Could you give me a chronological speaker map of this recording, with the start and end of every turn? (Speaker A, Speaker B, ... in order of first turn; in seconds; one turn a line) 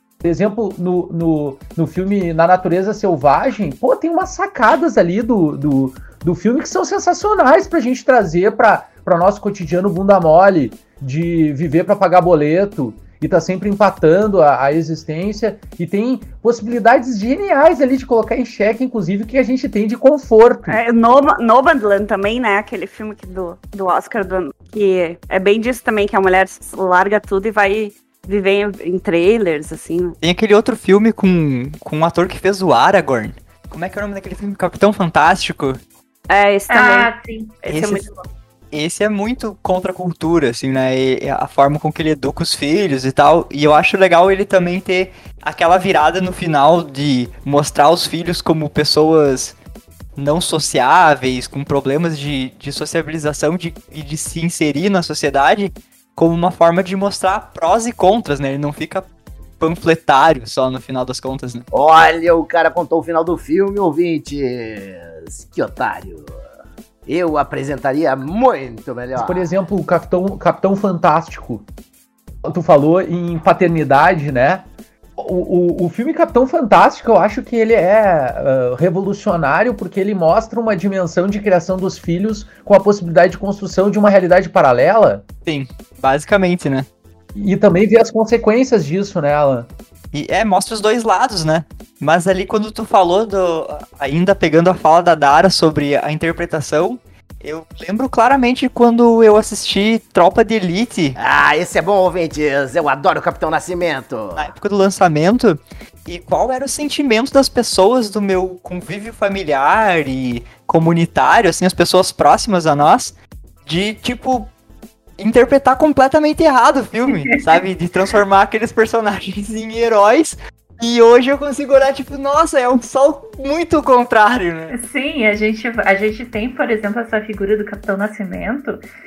Speaker A: 0.2-20.8
Speaker B: 20.7-30.1
Speaker C: 30.2-35.8
Speaker B: 36.3-37.1
Speaker D: 36.7-37.6
Speaker B: 37.6-38.0
Speaker C: 37.7-38.0
Speaker C: 38.7-49.5
Speaker C: 50.2-59.1
Speaker C: 59.6-61.6
Speaker E: 61.7-66.3
Speaker E: 67.0-69.4
Speaker A: 69.1-71.6
Speaker A: 72.4-74.6
Speaker A: 75.2-85.2
Speaker C: 85.5-86.9
Speaker A: 87.3-89.7
Speaker C: 90.1-101.2
Speaker E: 101.2-104.5
Speaker C: 104.3-114.5
Speaker C: 115.2-124.7
Speaker D: 124.7-128.8